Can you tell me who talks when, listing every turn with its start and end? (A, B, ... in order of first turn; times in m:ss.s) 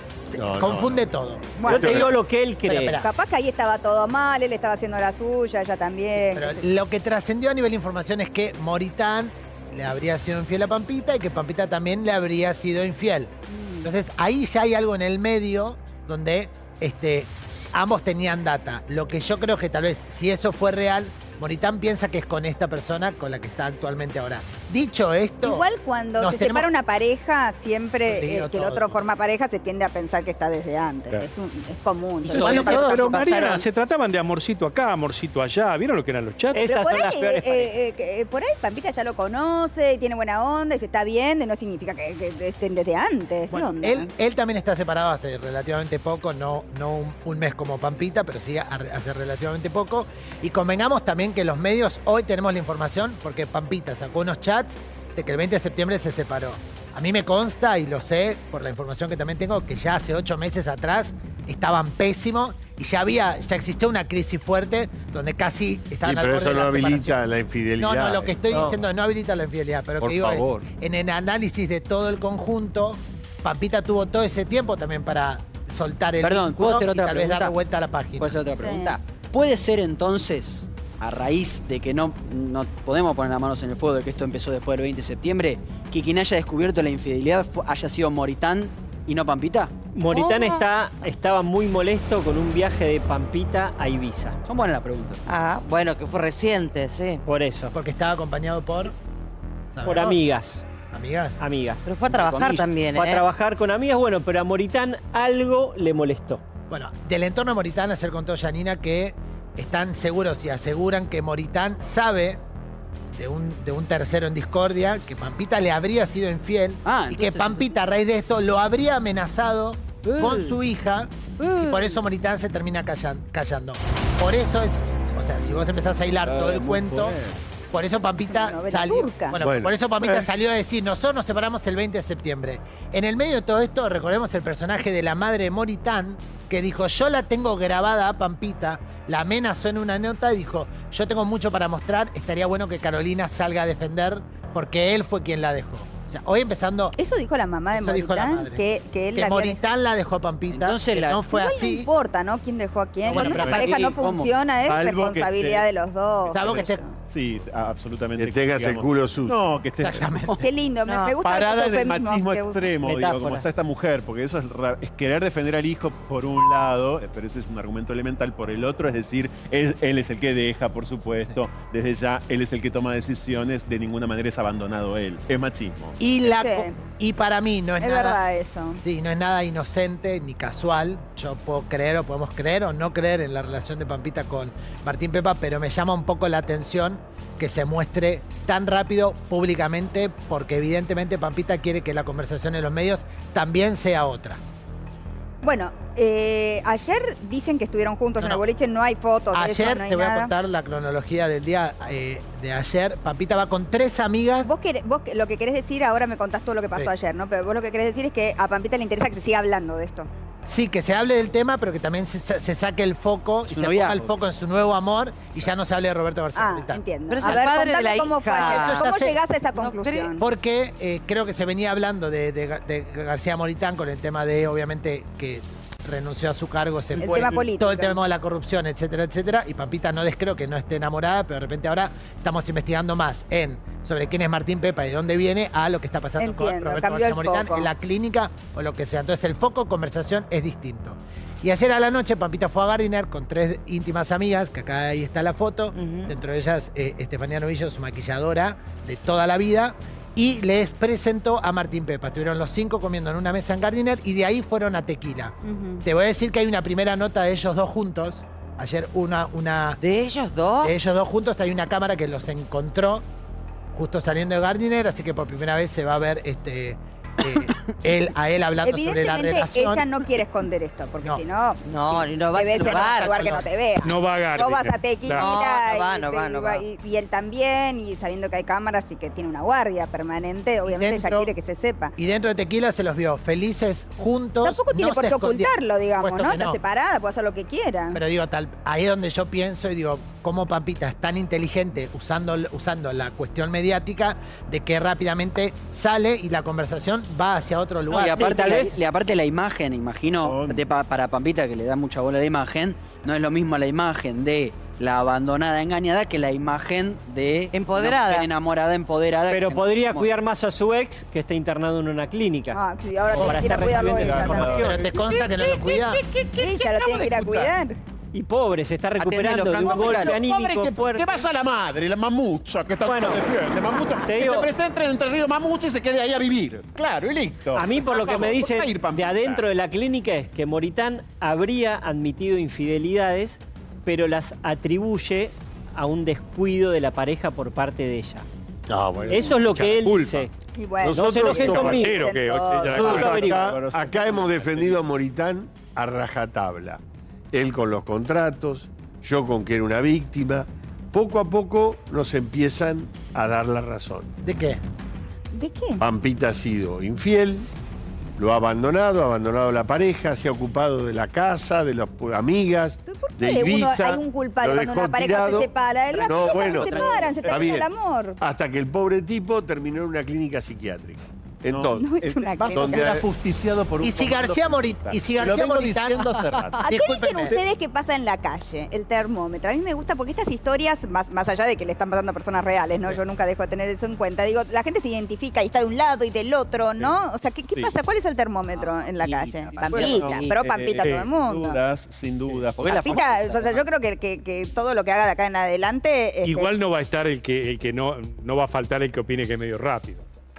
0:00.3-0:01.6 A
0:00.4-0:01.1 B
0:01.6-0:02.0 C
0:01.6-0:03.0 D
0:01.7-0:02.1 B
0:02.7-0:03.1 A
0:03.0-0:06.6 C
0:06.3-0:13.3 A
0:13.5-0:13.9 C
0:13.8-0:26.7 A
0:25.4-0:33.6 C
0:28.1-0:29.0 A
0:32.2-0:33.7 E
0:32.4-0:32.8 A
0:32.4-0:36.7 F
0:36.5-0:37.7 D
0:36.6-0:44.1 C
0:43.5-1:07.2 A
1:06.0-1:08.8 B
1:07.8-1:18.4 A
1:10.0-1:10.7 B
1:16.2-1:17.6 E
1:18.2-1:29.7 E
1:18.6-1:19.0 C
1:29.9-1:34.4 D
1:30.1-1:30.6 G
1:34.4-1:35.2 E
1:35.3-1:37.2 G
1:37.2-1:37.7 D
1:37.7-1:38.9 A
1:39.7-1:40.2 A
1:39.8-1:40.7 D
1:40.9-1:41.4 A
1:41.4-1:46.4 D
1:41.8-1:43.2 G
1:42.1-1:42.6 E
1:46.7-1:52.4 A
1:53.1-2:07.2 A
1:56.8-1:57.7 E
2:00.0-2:00.6 E
2:01.4-2:02.0 E
2:06.2-2:07.1 E
2:07.7-2:27.0 A
2:08.3-2:09.4 C
2:09.4-2:10.3 B
2:27.0-2:29.6 C
2:27.7-2:28.6 A
2:29.1-2:31.9 A
2:30.5-2:31.3 E
2:31.3-2:36.9 C
2:33.0-2:33.7 A
2:33.1-2:33.8 H
2:33.3-2:34.3 E
2:34.7-2:35.7 H
2:36.3-2:36.8 A
2:36.3-2:40.1 H
2:38.2-2:39.4 B
2:39.8-2:40.4 A
2:40.4-2:42.7 C
2:40.9-2:41.1 E
2:41.2-2:56.0 H
2:42.9-2:43.4 E
2:56.0-2:58.2 A
2:56.2-2:56.8 C
2:57.8-2:58.8 C
2:58.8-3:14.4 A
3:15.4-3:20.3 C
3:19.3-3:24.5 A
3:24.4-3:30.1 C
3:30.4-3:36.8 A
3:33.5-3:34.0 E
3:36.4-3:40.2 C
3:37.1-3:38.9 G
3:38.4-3:39.2 A
3:39.5-3:40.1 G
3:40.2-4:19.8 A
3:47.0-3:48.0 C
3:56.2-3:57.7 C
4:05.7-4:06.2 G
4:15.4-4:15.8 C
4:19.8-4:20.7 G
4:20.6-4:23.0 A
4:23.7-4:29.8 A
4:28.6-4:42.0 C
4:31.7-4:33.2 G
4:32.5-4:33.5 A
4:33.8-4:35.3 F
4:35.1-4:36.6 G
4:40.6-4:41.3 A
4:42.0-4:46.6 A
4:44.4-4:48.0 C
4:47.9-4:58.5 A
4:57.9-5:10.1 E
4:58.4-4:58.8 D
5:00.1-5:00.7 H
5:07.5-5:08.3 G
5:09.3-5:12.6 D
5:12.5-5:14.6 C
5:13.1-5:14.8 D
5:13.2-5:13.7 A
5:13.9-5:16.0 H
5:14.4-5:16.0 A
5:16.4-5:17.8 C
5:16.6-5:17.4 H
5:18.1-5:21.1 D
5:19.0-5:20.2 E
5:19.6-5:29.4 H
5:22.8-5:23.2 D
5:24.0-5:24.5 D
5:27.6-5:38.2 D
5:38.7-5:39.3 B
5:39.1-5:40.3 D
5:39.2-5:40.3 F
5:40.6-5:41.1 C
5:40.8-5:41.9 B
5:41.0-5:41.9 D
5:41.2-5:43.6 F
5:41.6-5:42.9 C
5:42.6-5:46.8 B
5:42.8-5:44.9 H
5:42.9-5:43.4 D
5:47.3-5:54.1 B
5:54.2-5:54.6 A
5:55.3-5:55.8 C
5:55.8-5:57.5 B
5:58.2-6:07.7 B
6:02.8-6:08.2 C
6:05.9-6:07.3 E
6:08.2-6:11.8 B
6:11.4-6:17.4 H
6:11.7-6:13.0 C
6:12.5-6:13.1 B
6:13.8-6:16.1 A
6:16.6-6:31.6 C
6:16.6-6:17.4 A
6:28.5-6:30.1 E
6:29.6-6:33.6 H
6:30.7-6:31.1 F
6:32.6-6:33.4 E
6:32.6-6:36.5 C
6:36.2-6:40.0 F